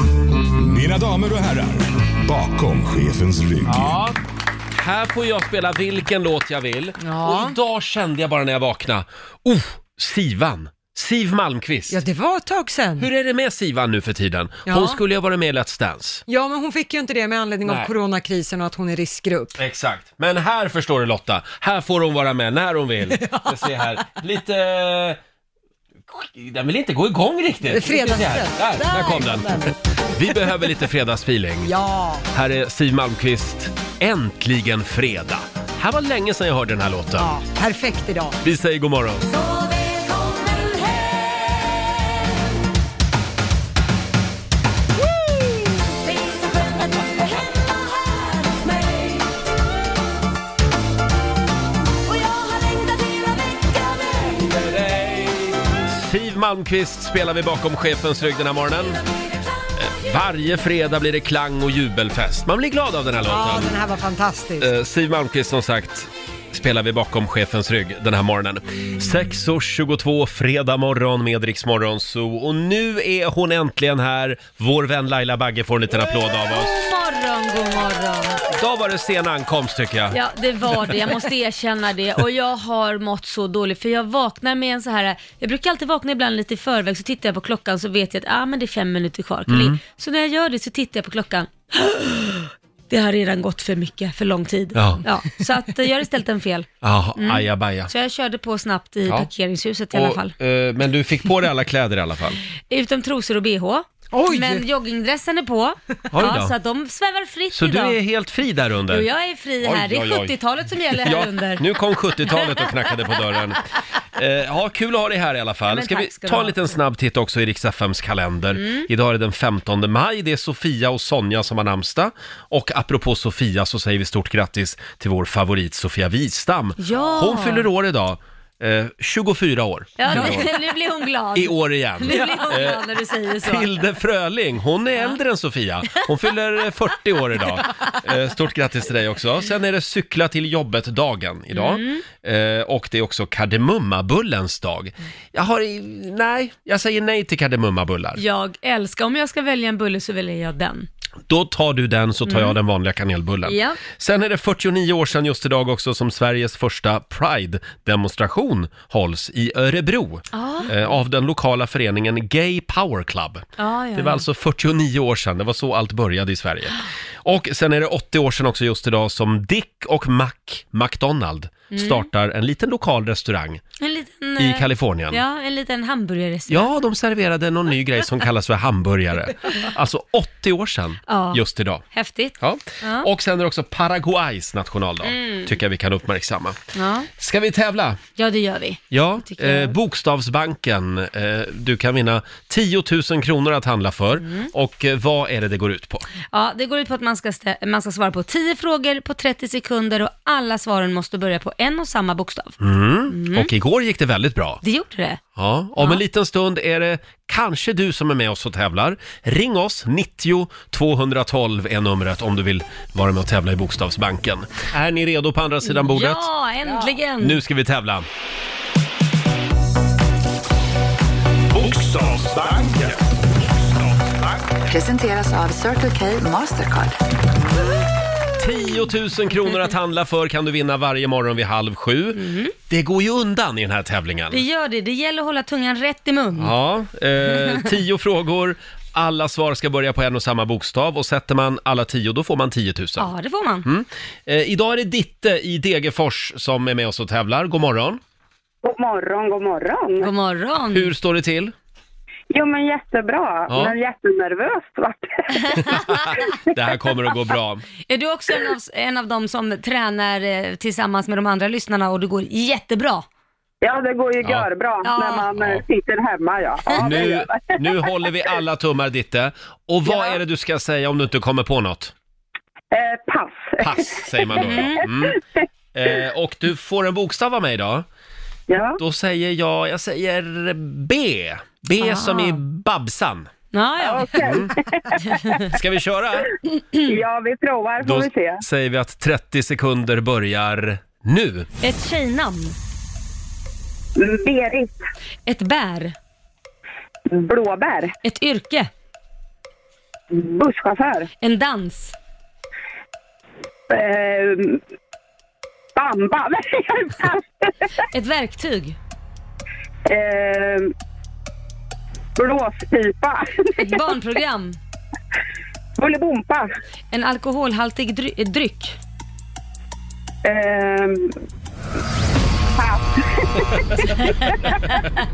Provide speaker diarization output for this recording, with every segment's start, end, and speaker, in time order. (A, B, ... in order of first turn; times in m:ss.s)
0:00.5-0:04.0 A
0:03.7-0:04.2 B
0:04.8-0:12.0 B
0:07.0-0:07.6 C
0:11.9-0:13.1 C
0:13.0-0:16.2 B
0:14.7-0:15.0 C
0:16.3-0:19.6 C
0:17.6-0:17.9 B
0:19.6-0:25.2 B
0:23.1-0:23.7 C
0:26.1-0:31.7 B
0:27.7-0:29.8 C
0:31.6-0:32.3 C
0:32.3-0:37.3 B
0:37.2-0:38.4 C
0:38.4-0:39.3 B
0:39.3-0:41.6 D
0:46.2-0:49.2 D
0:52.4-0:53.8 D
0:54.4-0:59.0 B
0:59.8-1:03.8 B
1:03.2-1:04.7 C
1:04.6-1:16.9 B
1:16.0-1:18.4 D
1:18.5-1:20.2 B
1:20.1-1:40.3 D
1:29.5-1:29.8 B
1:34.8-1:35.0 B
1:36.8-1:37.9 B
1:39.9-1:42.4 B
1:42.7-1:48.0 D
1:44.1-1:44.7 C
1:46.1-1:46.5 B
1:47.5-1:49.0 B
1:48.9-1:51.6 D
1:49.6-1:50.4 B
1:51.0-1:53.6 B
1:54.2-2:10.5 B
1:55.7-1:56.7 D
1:58.5-1:58.9 D
2:06.8-2:07.7 D
2:10.0-2:13.7 D
2:11.4-2:12.8 B
2:13.4-2:28.2 B
2:21.5-2:22.0 D
2:28.2-2:30.9 D
2:31.3-2:53.6 B
2:32.3-2:32.6 D
2:33.5-2:33.8 D
2:40.3-2:40.7 D
2:43.6-2:44.2 D
2:51.7-2:52.1 D
2:53.8-2:56.7 D
2:54.4-2:55.2 B
2:56.5-3:01.8 B
3:01.1-3:01.4 D
3:01.9-3:03.1 D
3:02.4-3:06.6 B
3:05.0-3:05.5 D
3:06.8-3:07.1 D
3:07.2-3:08.0 B
3:08.2-3:09.8 D
3:08.9-3:16.1 B
3:14.2-3:14.5 D
3:16.3-3:22.6 D
3:22.6-3:24.6 B
3:23.1-3:23.5 D
3:24.6-3:25.2 D
3:25.4-3:36.3 B
3:35.7-3:37.4 D
3:37.2-3:38.1 B
3:41.5-3:44.4 A
3:44.6-3:47.0 E
3:48.4-3:54.4 B
3:52.2-3:52.5 D
3:54.3-3:56.5 D
3:56.4-4:03.1 B
4:03.0-4:03.7 D
4:03.6-4:08.0 B
4:08.6-4:10.1 F
4:10.0-4:10.9 D
4:10.7-4:11.5 B
4:12.3-4:16.4 F
4:13.5-4:13.8 B
4:15.7-4:17.6 B
4:17.9-4:23.1 D
4:23.6-4:27.8 F
4:24.2-4:24.5 B
4:24.8-4:25.3 D
4:25.4-4:25.6 B
4:26.8-4:31.9 B
4:32.7-4:34.9 F
4:33.6-4:35.2 B
4:34.4-4:34.8 D
4:35.7-4:37.9 B
4:38.5-4:38.8 F
4:38.8-4:43.3 B
4:41.8-4:42.4 D
4:43.5-4:44.3 D
4:43.8-4:45.4 F
4:44.2-4:44.5 B
4:45.5-4:46.3 B
4:46.8-4:48.4 F
4:47.8-4:51.5 B
4:51.6-4:52.6 D
4:54.0-4:54.8 F
4:55.3-4:56.0 D
4:57.1-4:58.0 F
4:58.0-4:58.7 D
5:00.1-5:01.1 F
5:01.2-5:02.0 D
5:03.7-5:04.6 F
5:05.8-5:07.5 F
5:07.9-5:08.8 D
5:09.9-5:10.7 F
5:12.2-5:13.8 F
5:13.6-5:14.6 D
5:15.8-5:16.5 F
5:16.9-5:18.8 D
5:20.2-5:21.2 F
5:22.5-5:24.7 F